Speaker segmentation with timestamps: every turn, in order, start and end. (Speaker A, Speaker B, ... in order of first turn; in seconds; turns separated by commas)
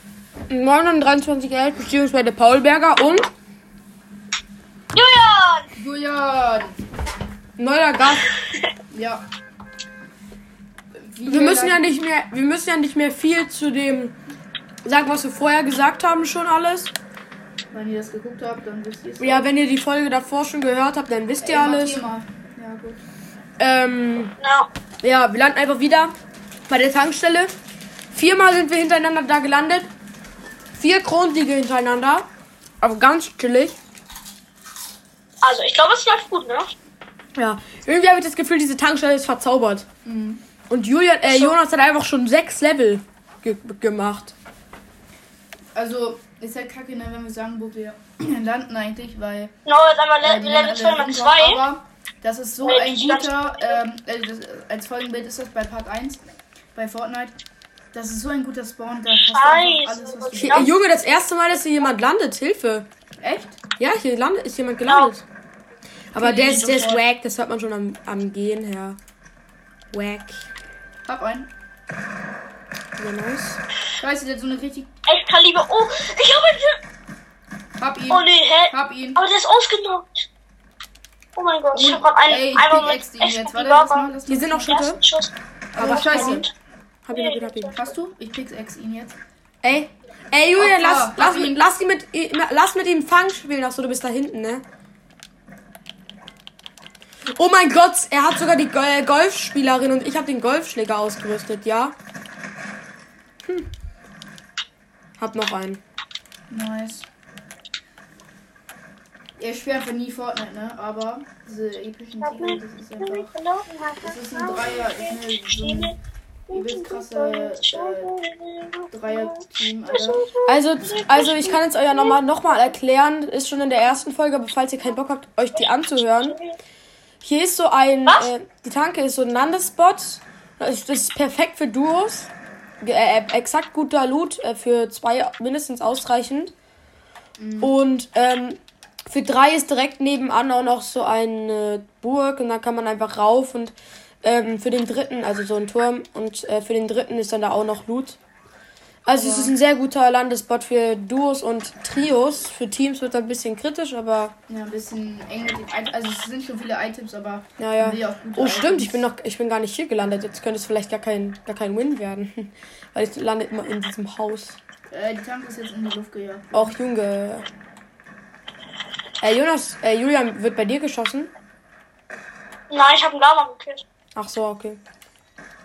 Speaker A: 0.5-3.3, Speaker B: 4.9-5.7, Speaker C: 5.7-6.8, Speaker A: 7.6-8.3, Speaker C: 8.9-9.2, Speaker C: 10.9-11.9, Speaker A: 11.3-14.2, Speaker A: 14.8-16.9, Speaker C: 17.7-19.5, Speaker A: 19.2-22.0, Speaker C: 21.4-23.0, Speaker A: 23.6-24.3, Speaker B: 24.4-24.7, Speaker A: 25.0-26.1, Speaker A: 26.7-27.5, Speaker A: 28.1-29.9, Speaker A: 30.8-32.3, Speaker A: 32.8-33.7, Speaker B: 35.4-36.7, Speaker A: 37.4-39.9, Speaker C: 40.0-40.4, Speaker A: 40.7-44.3, Speaker B: 41.2-41.6, Speaker C: 45.7-49.5, Speaker B: 49.6-51.6, Speaker C: 50.2-56.2, Speaker B: 52.6-53.8, Speaker C: 56.7-57.4, Speaker C: 57.9-60.7, Speaker B: 59.1-60.7, Speaker A: 60.4-62.9, Speaker C: 63.2-63.6, Speaker A: 63.8-65.2, Speaker B: 64.9-65.1, Speaker A: 66.1-69.0, Speaker C: 66.2-67.0, Speaker A: 69.9-70.5, Speaker C: 71.1-71.5, Speaker A: 73.0-73.6, Speaker C: 74.0-74.9, Speaker B: 75.1-76.8, Speaker C: 77.8-79.2, Speaker B: 78.1-80.2, Speaker B: 81.3-86.5, Speaker C: 81.7-84.7, Speaker A: 84.3-85.0, Speaker C: 85.7-86.5, Speaker A: 85.8-86.5, Speaker A: 87.0-87.8, Speaker B: 87.1-87.6, Speaker C: 87.7-89.2, Speaker A: 89.6-94.6, Speaker C: 90.6-91.6, Speaker A: 97.3-101.9, Speaker A: 105.2-105.8, Speaker C: 106.5-107.1, Speaker C: 109.4-113.3, Speaker B: 112.2-115.9, Speaker C: 114.0-116.0, Speaker B: 116.5-122.2, Speaker C: 116.5-118.1, Speaker C: 118.9-120.3, Speaker A: 120.4-126.4, Speaker B: 126.3-126.5, Speaker A: 127.2-136.5, Speaker C: 137.4-137.7, Speaker A: 137.6-148.2, Speaker A: 149.0-154.3, Speaker C: 149.1-149.5, Speaker C: 154.5-159.0, Speaker A: 157.6-164.6, Speaker C: 164.9-166.8, Speaker A: 166.5-167.5, Speaker A: 169.2-171.3, Speaker B: 172.7-173.8, Speaker A: 174.2-174.8